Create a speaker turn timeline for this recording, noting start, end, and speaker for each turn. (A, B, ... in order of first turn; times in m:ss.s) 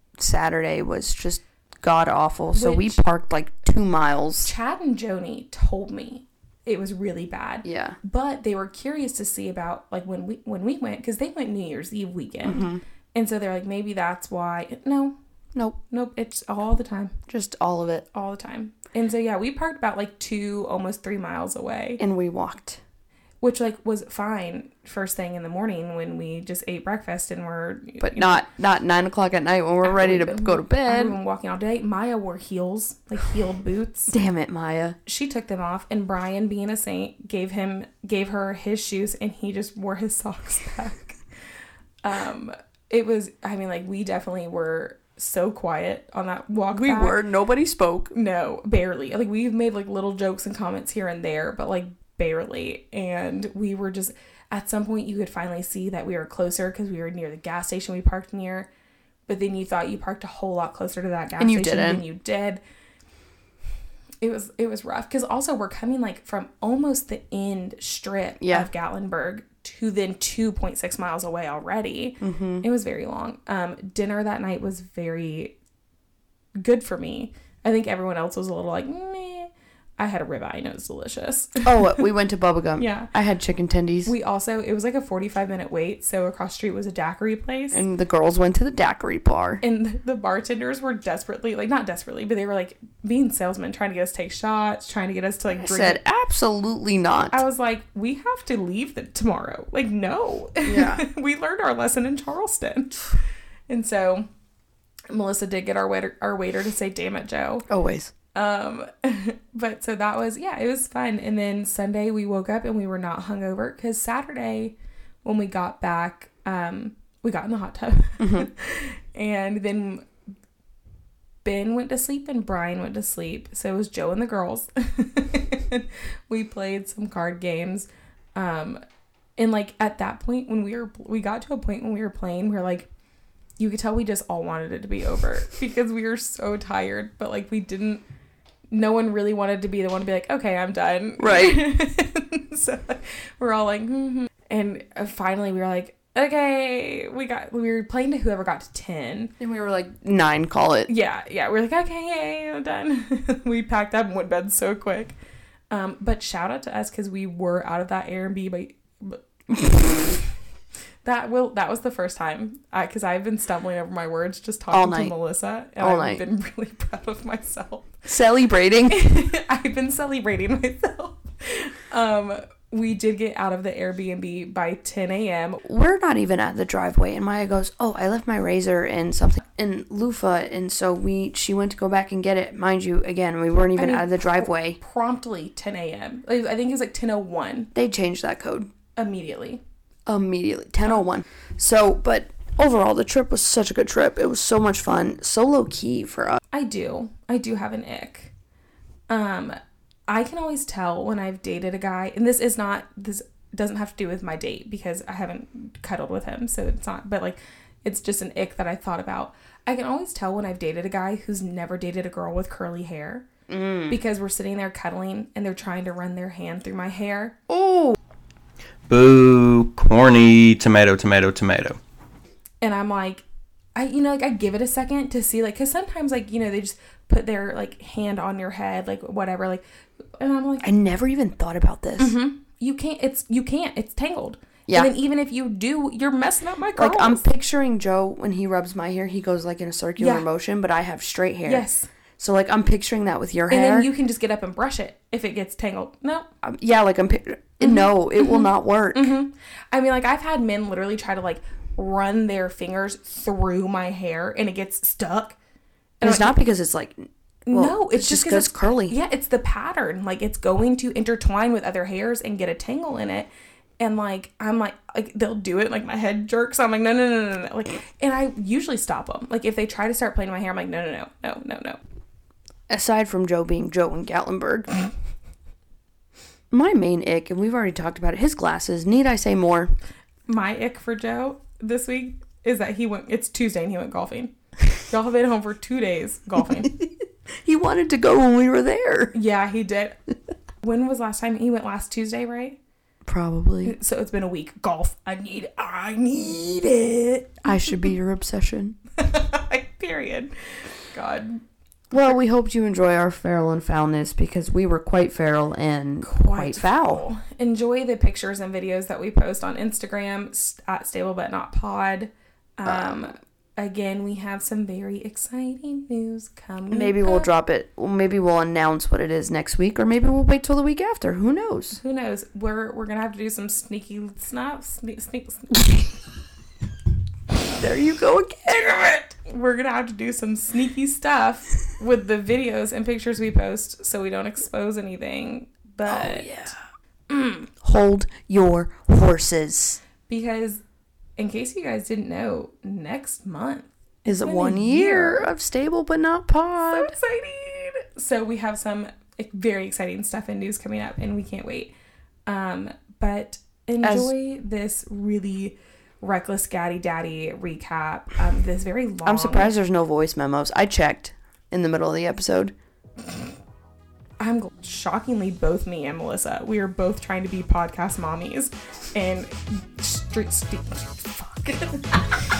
0:00.2-0:04.5 A
0:02.5-0:03.0 B
0:04.4-0:15.2 B
0:07.6-0:08.0 A
0:12.4-0:12.8 A
0:15.9-0:17.2 B
0:17.3-0:18.0 A
0:18.1-0:22.0 B
0:22.0-0:22.8 A
0:23.4-0:28.4 B
0:28.0-0:31.2 A
0:29.8-0:34.1 B
0:34.1-0:35.0 A
0:35.1-0:41.2 B
0:42.0-0:47.2 B
0:46.7-0:48.1 A
0:48.1-0:58.7 B
0:59.3-1:02.6 B
1:01.4-1:02.0 A
1:04.2-1:15.6 B
1:08.4-1:08.7 A
1:12.2-1:12.7 A
1:16.6-1:22.0 B
1:21.6-1:24.1 A
1:22.8-1:23.1 B
1:24.0-1:27.8 B
1:27.7-1:29.6 A
1:29.6-1:36.0 B
1:35.6-1:37.4 A
1:37.3-1:43.0 B
1:40.6-1:41.0 A
1:43.7-1:44.3 B
1:45.1-1:47.7 B
1:47.7-1:48.1 A
1:48.4-2:00.0 B
1:58.2-1:58.5 A
2:01.4-2:08.8 B
2:09.4-2:12.9 B
2:13.6-2:18.0 B
2:18.7-2:29.3 B
2:21.2-2:21.7 A
2:29.4-2:30.9 A
2:30.9-2:35.1 B
2:35.7-2:40.2 B
2:41.0-2:48.0 B
2:44.7-2:45.1 A
2:45.8-2:46.2 A
2:48.1-2:49.0 A
2:48.9-2:55.6 B
2:55.6-3:04.8 A
3:03.8-3:07.7 B
3:07.7-3:08.7 A
3:09.0-3:09.6 B
3:10.1-3:16.4 A
3:16.5-3:18.3 B
3:19.1-3:19.6 B
3:20.1-3:33.3 B
3:33.5-3:34.0 A
3:33.9-3:37.4 B
3:37.5-3:38.0 A
3:38.9-3:41.8 C
3:42.6-3:43.2 B
3:43.8-3:49.6 B
3:50.2-3:50.7 B
3:50.6-3:52.2 A
3:52.0-3:57.2 B
3:56.8-4:01.6 A
4:00.0-4:00.3 B
4:01.4-4:01.9 B
4:02.2-4:03.9 A
4:03.5-4:06.3 B
4:06.4-4:09.1 A
4:07.6-4:15.4 B
4:16.0-4:16.4 B
4:16.0-4:19.0 A
4:17.5-4:31.8 B
4:32.7-4:34.8 A
4:36.5-4:39.7 A
4:40.3-4:46.7 B
4:47.4-4:49.2 A
4:49.1-4:50.0 B
4:50.6-4:52.6 B
4:53.1-4:53.8 A
4:53.6-4:57.8 B
4:57.4-4:58.8 A
4:59.0-5:01.4 B
5:01.9-5:07.0 A
5:06.0-5:17.3 B
5:12.7-5:13.0 A
5:16.7-5:21.8 A
5:21.8-5:26.0 B
5:27.5-5:28.8 A
5:28.5-5:36.3 B
5:35.9-5:36.6 A
5:37.1-5:37.5 B
5:37.6-5:39.8 A
5:40.1-5:40.6 B
5:41.2-5:45.3 B
5:44.0-5:46.9 A
5:46.6-5:51.7 B
5:52.3-5:59.5 B
5:53.8-5:54.1 A
5:59.0-6:02.6 A
6:04.2-6:12.2 B